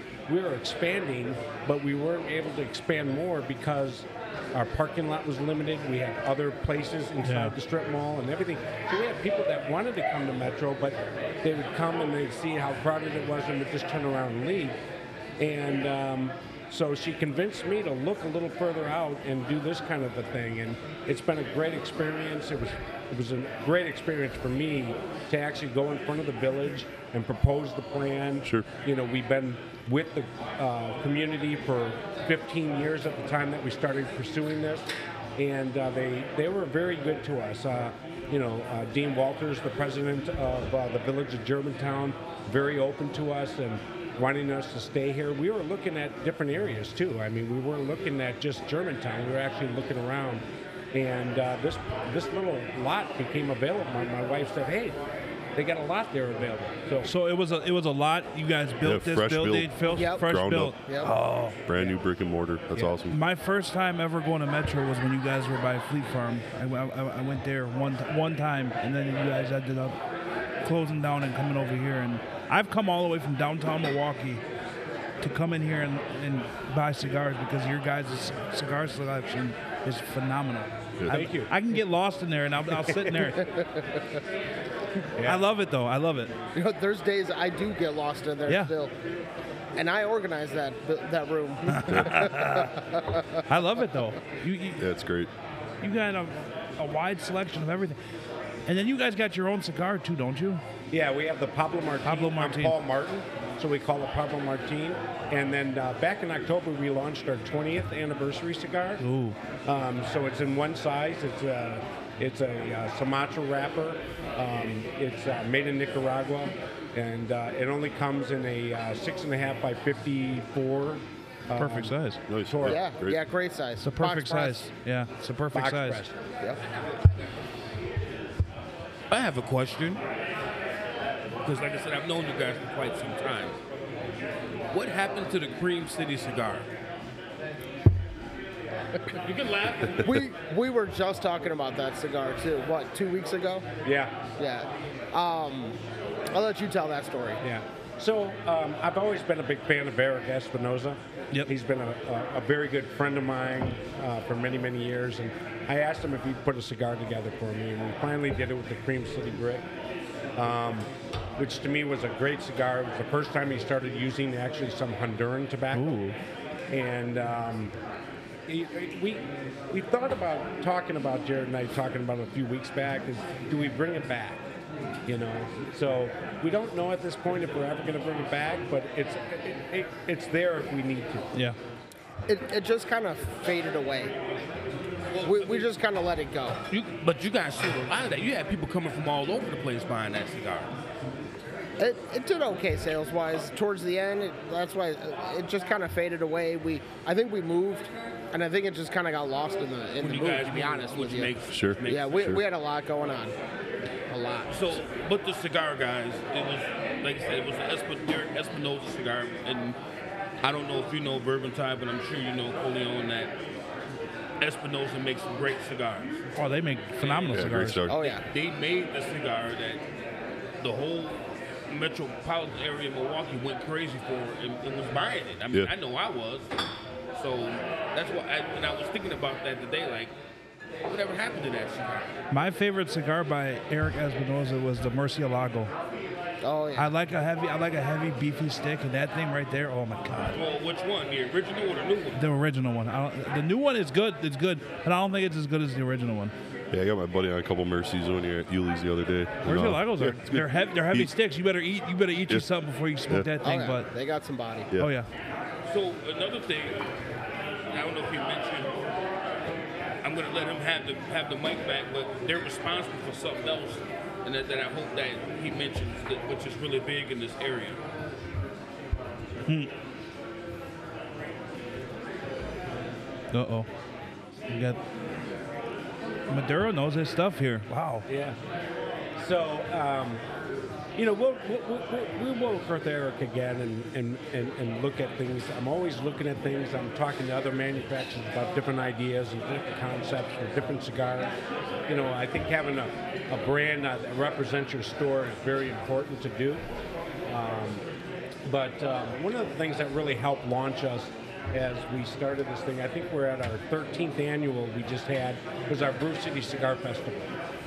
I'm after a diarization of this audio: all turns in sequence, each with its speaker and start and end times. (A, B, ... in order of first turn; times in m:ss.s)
0:00.3-0:14.8 A
0:07.2-0:07.6 B
0:15.4-0:55.0 A
0:28.4-0:28.7 C
0:55.5-0:57.1 A
0:57.0-1:01.6 B
0:58.8-1:00.7 C
0:59.9-1:00.2 D
1:00.8-1:01.1 D
1:01.6-1:03.2 C
1:03.1-1:10.0 B
1:10.6-1:14.4 B
1:15.2-1:23.5 B
1:21.0-1:21.3 C
1:21.1-1:21.6 A
1:22.9-1:23.1 A
1:23.4-1:24.2 D
1:25.2-1:26.3 B
1:26.5-1:28.9 D
1:28.4-1:28.7 B
1:29.7-1:33.4 D
1:31.7-1:32.8 B
1:31.9-1:32.3 C
1:33.5-1:34.8 B
1:34.8-1:35.3 C
1:35.8-1:38.0 B
1:38.6-1:40.6 B
1:40.9-1:49.0 A
1:42.0-1:42.8 B
1:49.0-1:49.4 B
1:49.6-2:02.8 A
2:01.6-2:02.2 B
2:02.3-2:03.2 C
2:02.6-2:04.7 D
2:03.8-2:06.0 B
2:05.5-2:06.2 A
2:09.1-2:10.0 E
2:11.4-2:13.6 E
2:14.7-2:16.7 E
2:19.1-2:20.1 E
2:20.0-2:23.7 D
2:23.8-2:24.2 A
2:24.4-2:25.8 D
2:26.3-2:27.4 D
2:27.4-2:39.6 A
2:40.4-2:46.0 A
2:45.7-2:46.2 B
2:46.7-2:47.7 A
2:48.5-2:54.4 A
2:55.0-3:01.3 A
3:02.3-3:04.1 D
3:05.1-3:05.7 E
3:05.2-3:06.6 D
3:06.7-3:10.7 E
3:11.8-3:21.3 D
3:20.0-3:22.4 E
3:21.5-3:22.4 C
3:21.8-3:23.3 D
3:24.1-3:24.6 D
3:24.5-3:29.8 E
3:30.4-3:33.3 E
3:34.4-3:36.2 E
3:36.3-3:37.9 B
3:37.0-3:39.8 E
3:37.3-3:38.0 C
3:37.9-3:38.2 D
3:40.6-3:46.5 E
3:47.1-3:50.1 E
3:50.8-3:52.2 E
3:52.3-3:55.7 B
3:56.4-3:56.9 D
3:56.7-4:00.4 B
4:00.3-4:02.2 E
4:02.2-4:06.3 B
4:06.7-4:11.1 C
4:09.4-4:13.9 B
4:13.4-4:14.7 D
4:14.8-4:15.1 B
4:15.6-4:16.8 E
4:17.7-4:18.8 E
4:20.0-4:27.8 E
4:29.4-4:29.7 B
4:33.3-4:33.7 B
4:34.5-4:34.8 B
4:36.3-4:38.0 B
4:38.1-4:38.4 A
4:39.2-4:40.2 A
4:41.0-4:51.3 A
4:51.9-4:56.6 A
4:57.3-4:57.8 A
4:58.4-5:07.3 A